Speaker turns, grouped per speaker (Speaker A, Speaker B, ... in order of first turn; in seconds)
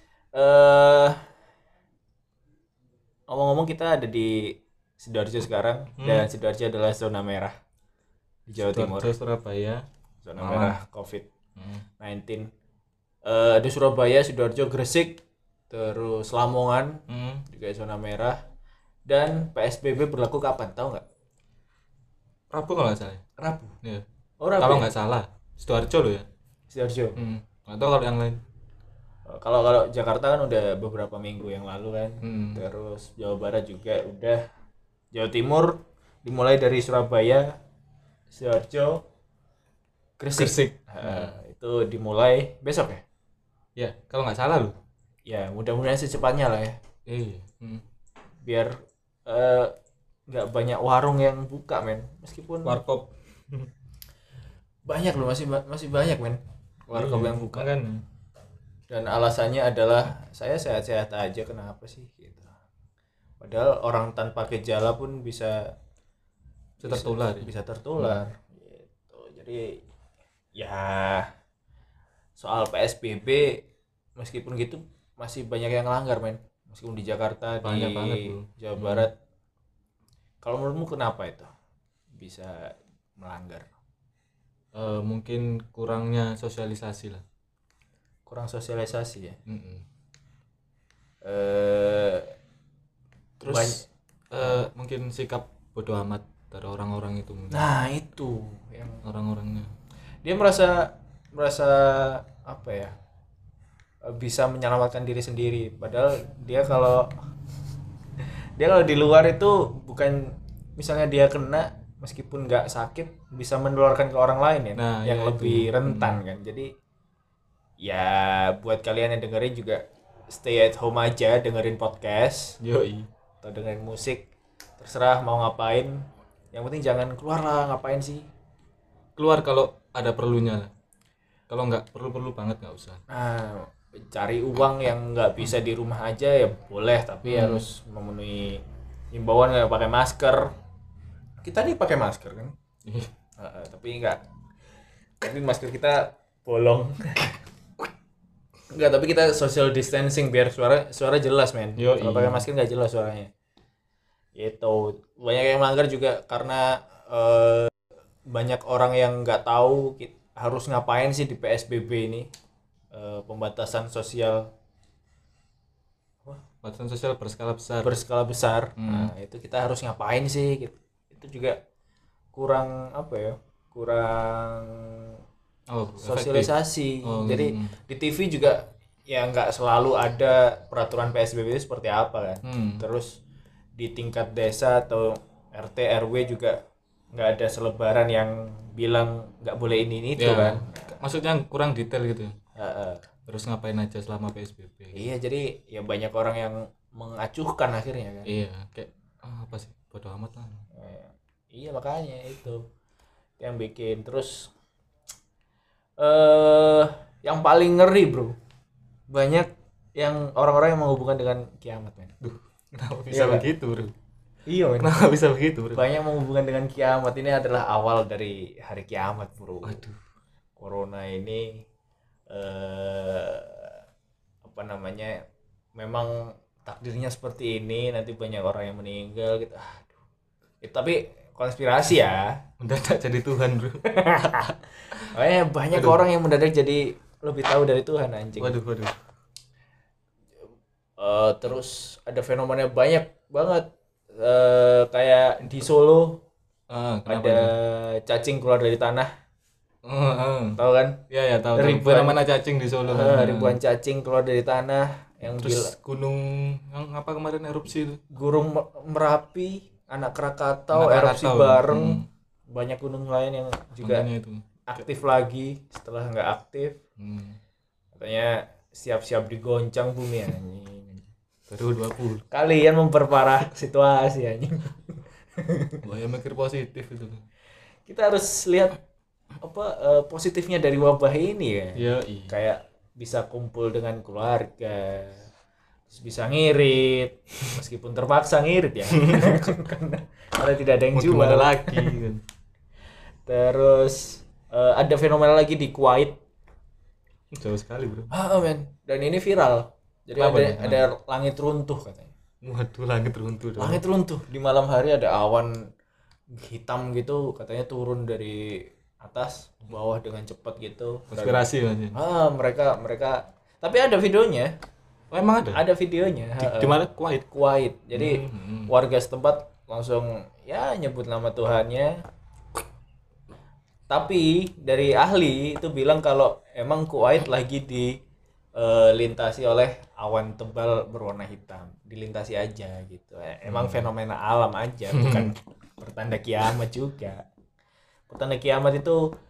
Speaker A: 0.3-1.2, 3.3-7.5, 8.5-9.1, 10.2-11.3, 12.0-12.5, 13.3-18.4, 19.1-21.0, 23.4-23.8, 24.4-24.9, 26.7-27.2, 29.3-34.4, 35.1-37.5, 38.3-39.0, 40.2-43.0, 45.3-46.8, 48.5-48.8, 49.3-49.7, 50.3-52.8, 54.9-57.7, 58.9-62.5, 63.4-65.7, 66.8-69.8, 70.6-71.3, 72.4-73.6, 74.2-79.2, 80.4-81.5, 82.2-83.7, 88.3-89.4, 91.2-92.3, 93.4-93.9, 97.5-99.0, 100.2-102.9, 104.0-107.1, 108.6-116.7, 117.8-122.6, 123.4-124.3, 124.8-128.3, 133.1-140.5, 141.4-142.5, 143.4-144.2, 145.2-147.3, 148.7-153.3, 154.4-157.7, 158.3-162.3, 162.9-164.5, 167.8-171.6, 172.3-175.2, 176.0-183.2, 183.8-186.6, 187.1-191.0, 192.6-193.0, 194.9-198.3, 200.7-202.6, 203.4-204.5, 206.0-208.3, 209.1-212.2, 213.1-213.5, 214.5-214.9, 215.7-219.8, 220.6-221.7, 222.3-223.8, 224.4-225.2, 225.8-229.9, 230.6-232.4, 233.8-238.6, 241.0-246.2, 247.1-249.1, 250.6-251.0, 251.6-252.2, 252.8-255.7, 258.1-262.0, 262.5-264.1, 264.7-266.8, 267.9-271.1, 272.3-275.8, 277.9-278.8, 279.4-285.2, 285.9-292.0, 293.3-296.2, 298.1-302.1, 303.6-305.6, 306.4-314.5, 315.5-322.0, 323.9-328.0, 328.6-337.2, 338.1-339.0
Speaker B: 6.0-6.3, 8.6-9.8, 10.4-10.8, 11.6-11.8, 17.1-17.5, 22.5-23.2, 24.6-26.3, 27.2-28.4, 32.2-32.6, 40.3-41.4, 43.8-44.8, 47.1-47.8, 52.6-53.7, 56.9-58.0, 66.8-68.2, 77.6-79.1, 84.8-87.2, 89.5-89.8, 93.4-93.8, 94.3-97.7, 99.0-99.7, 114.8-116.2, 122.6-123.1, 129.2-130.7, 131.5-133.0, 137.3-137.6, 151.8-152.5, 166.6-167.9, 168.8-169.1, 175.7-176.5, 177.0-177.7, 182.4-182.8, 190.2-192.3, 193.3-195.1, 198.3-200.6, 212.2-213.9, 214.8-215.8, 219.6-220.0, 232.6-234.1, 235.7-236.0, 238.4-238.9, 246.7-247.5, 249.9-250.6, 251.1-253.6, 255.4-258.0, 260.7-262.1, 263.8-264.4, 267.0-267.4, 271.5-272.2, 275.8-277.2, 281.8-282.3, 288.9-289.4, 290.9-292.2, 297.3-298.1, 300.2-300.8, 302.4-303.8, 311.1-312.0, 315.1-315.6, 316.4-317.3, 317.9-318.7, 333.4-333.9, 334.9-335.3